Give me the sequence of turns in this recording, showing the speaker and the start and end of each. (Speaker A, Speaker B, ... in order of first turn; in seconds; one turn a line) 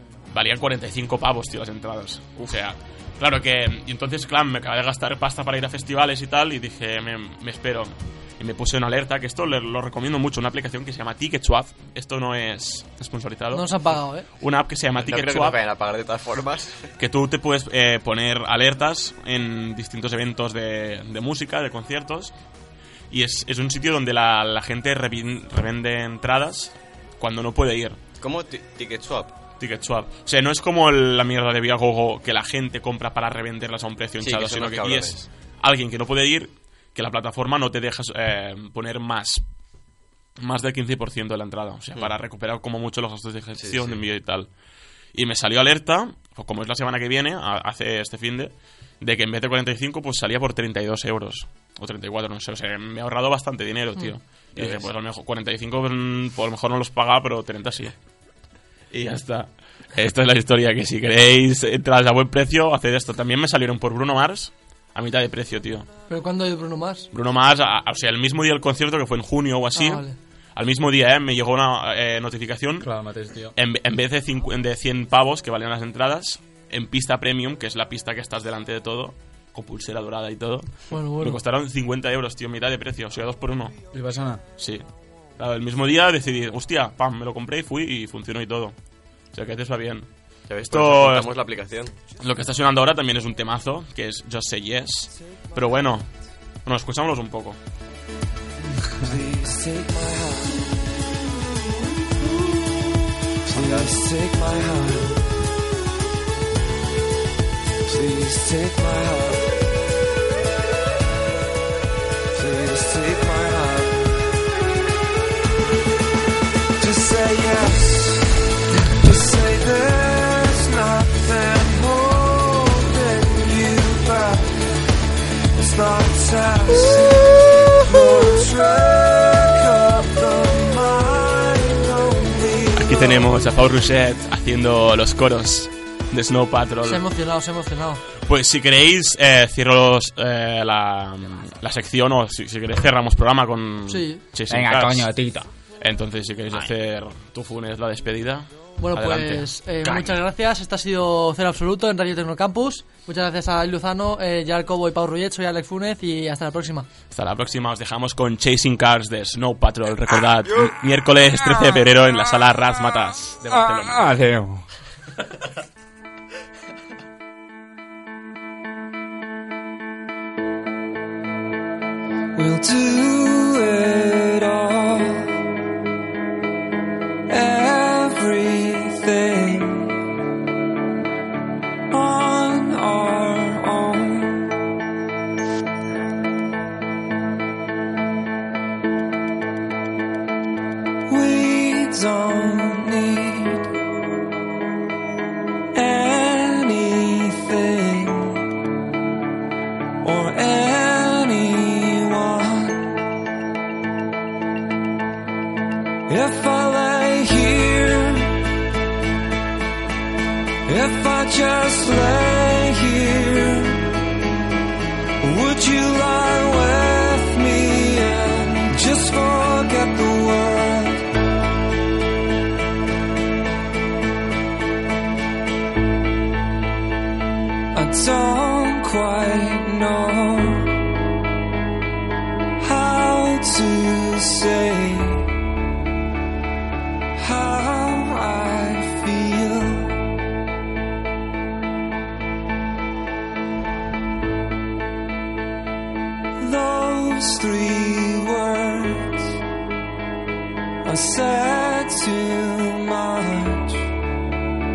Speaker A: 0.3-15.6
Speaker B: 13.5-14.3
Speaker C: 15.0-16.9
Speaker A: 17.0-22.3
Speaker A: 23.1-28.0
Speaker C: 28.2-29.4
Speaker A: 29.6-39.4
Speaker C: 34.2-35.2
Speaker A: 40.4-44.5
Speaker C: 43.6-44.0
Speaker A: 45.1-57.9
Speaker C: 54.5-54.9
Speaker A: 58.9-65.9
Speaker B: 66.1-67.1
Speaker A: 67.1-72.9
Speaker B: 69.7-70.2
Speaker D: 72.8-73.5
Speaker A: 73.5-83.8
Speaker B: 80.9-81.4
Speaker D: 83.9-84.4
Speaker A: 84.6-84.8
Speaker A: 85.4-88.7
Speaker A: 89.3-90.1
Speaker C: 90.5-91.9
Speaker A: 90.7-91.3
Speaker A: 92.2-96.1
Speaker A: 96.6-97.6
Speaker D: 98.7-99.1
Speaker E: 99.0-101.0
Speaker E: 103.4-105.3
Speaker D: 103.5-103.9
Speaker E: 107.8-109.5
Speaker E: 112.3-114.2
Speaker E: 116.8-124.7
Speaker E: 125.5-133.3
Speaker A: 132.8-137.0
Speaker B: 136.8-138.0
Speaker A: 138.3-145.1
Speaker B: 143.9-144.2
Speaker D: 144.5-145.5
Speaker A: 145.8-150.2
Speaker B: 148.8-156.9
Speaker A: 157.1-164.0
Speaker D: 163.5-164.7
Speaker E: 172.3-175.4
Speaker E: 177.3-180.0
Speaker E: 181.9-184.5
Speaker E: 191.1-193.7
Speaker E: 195.7-198.5
Speaker E: 200.0-202.9
Speaker E: 206.1-208.4
Speaker E: 210.7-213.9
Speaker E: 215.2-221.1
Speaker E: 227.7-230.8
Speaker E: 232.6-235.3
Speaker E: 237.1-240.0
Speaker E: 246.4-249.3
Speaker E: 250.8-253.9